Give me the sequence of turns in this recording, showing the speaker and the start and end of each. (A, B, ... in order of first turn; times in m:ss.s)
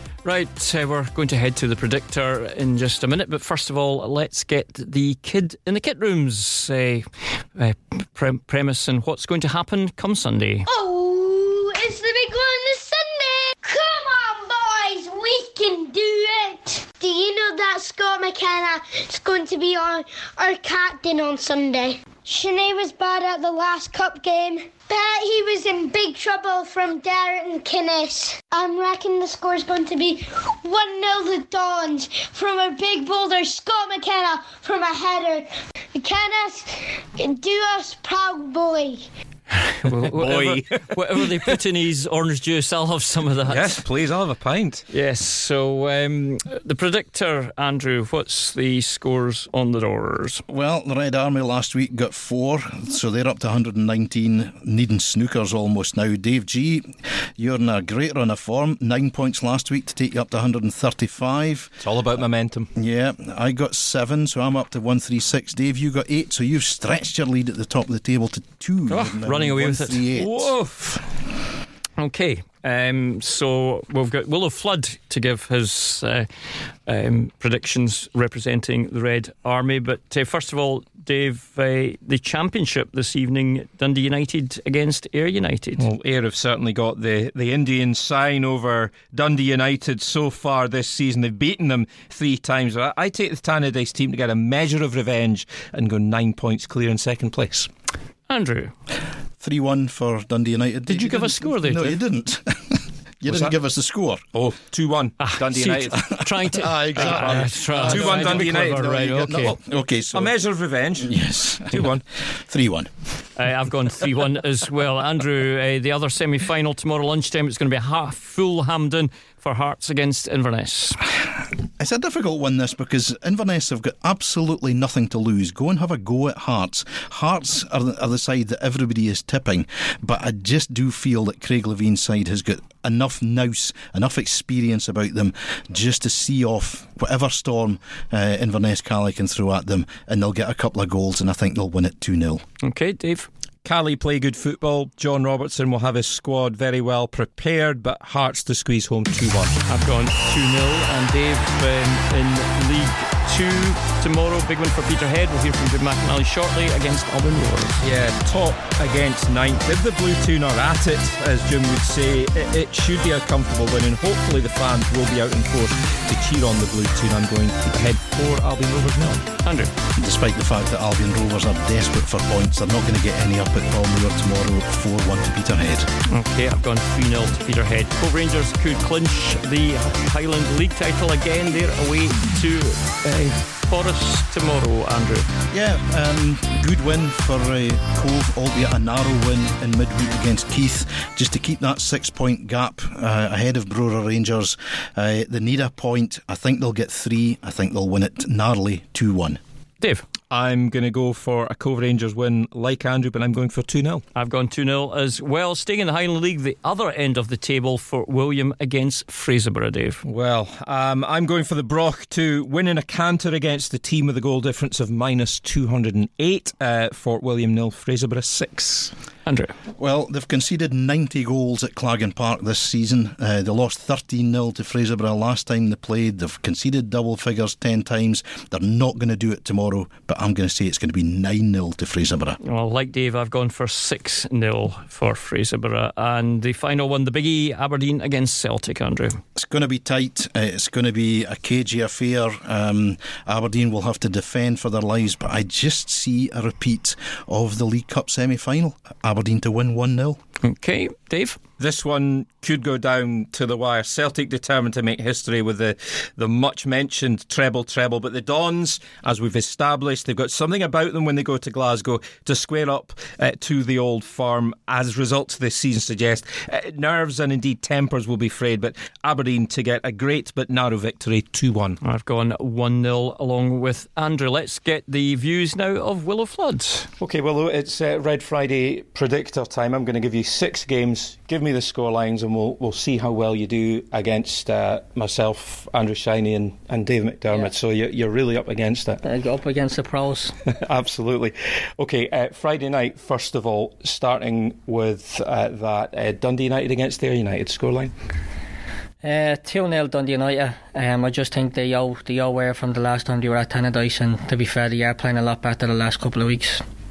0:00.2-0:10.6 A
0:10.6-0:39.0 B
0:39.6-0:43.8 A
0:40.0-0:40.8 C
0:43.5-0:44.8 C
0:44.9-0:50.4 A
0:50.5-1:01.8 D
1:01.8-1:02.7 C
1:02.7-1:10.5 D
1:08.9-1:10.8 A
1:12.0-1:16.3 A
1:16.9-1:25.8 A
1:25.8-1:37.7 C
1:38.3-1:38.7 A
1:39.4-1:44.2 D
1:40.9-1:42.0 A
1:44.3-1:46.0 C
1:45.2-1:49.6 A
1:46.0-1:50.3 D
1:46.9-1:48.8 C
1:50.1-1:52.0 C
1:51.0-1:52.9 D
1:53.4-2:01.0 A
2:01.8-2:22.4 D
2:22.6-2:23.3 A
2:23.6-2:29.6 C
2:29.7-2:37.8 A
2:37.8-2:49.2 C
2:49.4-2:49.7 A
2:50.0-2:55.9 D
2:56.1-3:05.3 A
3:05.5-3:19.4 D
3:20.3-3:24.0 C
3:24.1-3:30.0 A
3:30.0-3:38.9 C
3:39.2-3:39.5 A
3:39.8-3:52.4 D
3:52.4-3:59.2 A
3:59.4-4:10.2 D
4:10.4-4:11.4 A
4:11.6-4:31.8 C
4:31.8-4:36.9 A
4:37.0-4:49.0 C
4:49.0-4:50.3 E
4:50.5-4:57.9 C
4:59.0-5:06.6 E